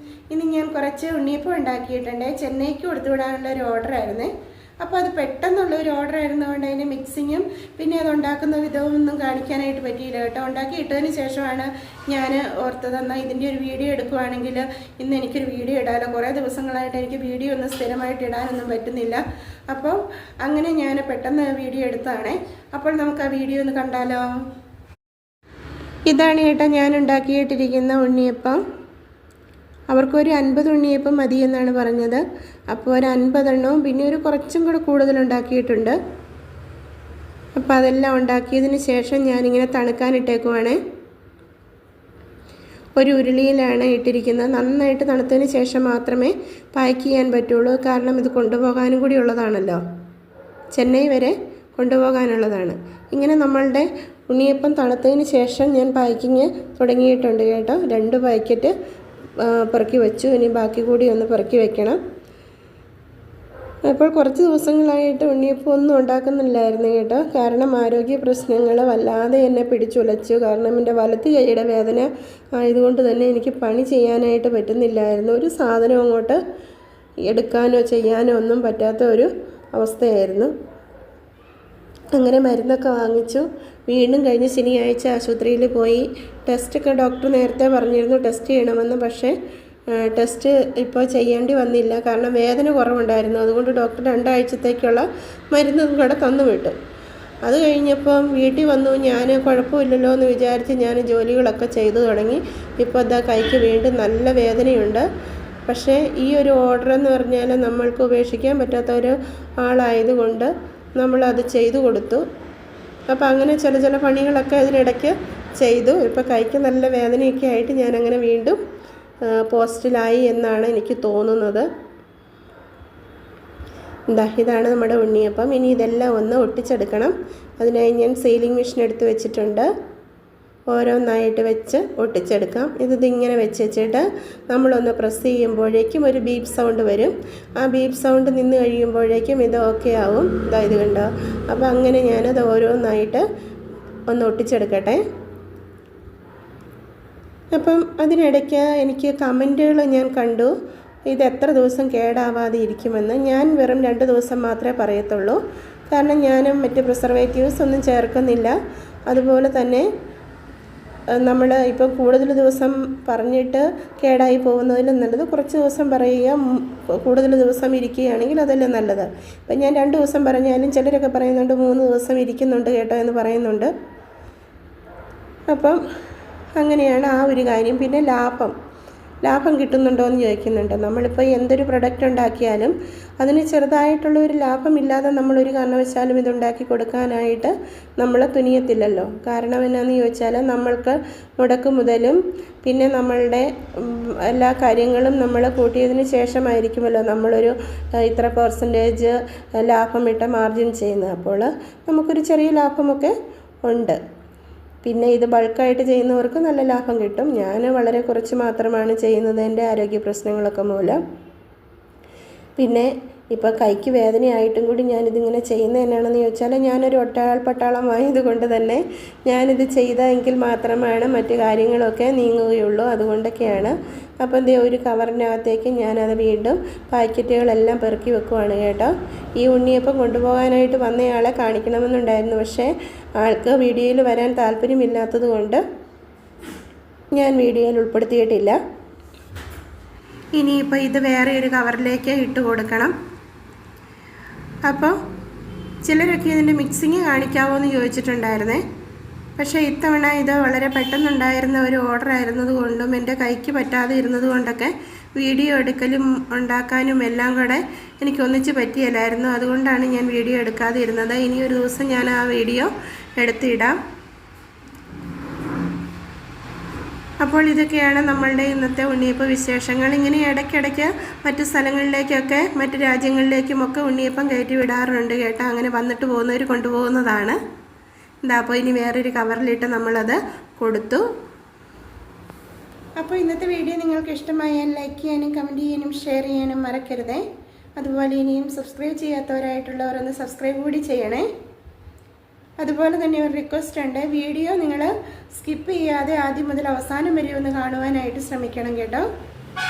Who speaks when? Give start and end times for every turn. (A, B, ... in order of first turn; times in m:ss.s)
0:00.3-0:24.2 A
0:26.1-0:28.6 A
0:29.9-0:36.0 A
0:37.6-0:40.8 A
0:43.0-0:49.8 A
0:50.7-0:58.7 A
0:59.4-1:02.0 A
1:03.9-1:16.4 A
1:17.2-1:20.5 A
1:22.1-1:29.4 A
1:29.9-1:36.8 A
1:37.4-1:45.0 A
1:45.7-1:52.2 A
1:53.1-1:58.6 A
1:59.2-2:01.7 A
2:04.1-2:09.7 A
2:10.7-2:23.2 A
2:24.1-2:25.0 A
2:27.5-2:30.5 A
2:31.1-2:35.4 A
2:35.9-2:38.6 A
2:39.1-2:39.9 A
2:41.2-2:53.7 A
2:55.5-2:55.8 A
2:56.6-2:58.5 A
2:59.2-3:24.0 A
3:24.8-3:31.0 A
3:32.6-3:55.6 A
3:57.1-3:58.6 A
4:00.4-4:02.9 A
4:04.6-4:05.0 A
4:05.8-4:08.6 A
4:09.4-4:23.8 A
4:27.2-4:37.4 A
4:38.2-4:41.0 A
4:43.0-4:47.2 A
4:47.8-4:51.3 A
4:52.6-4:59.1 A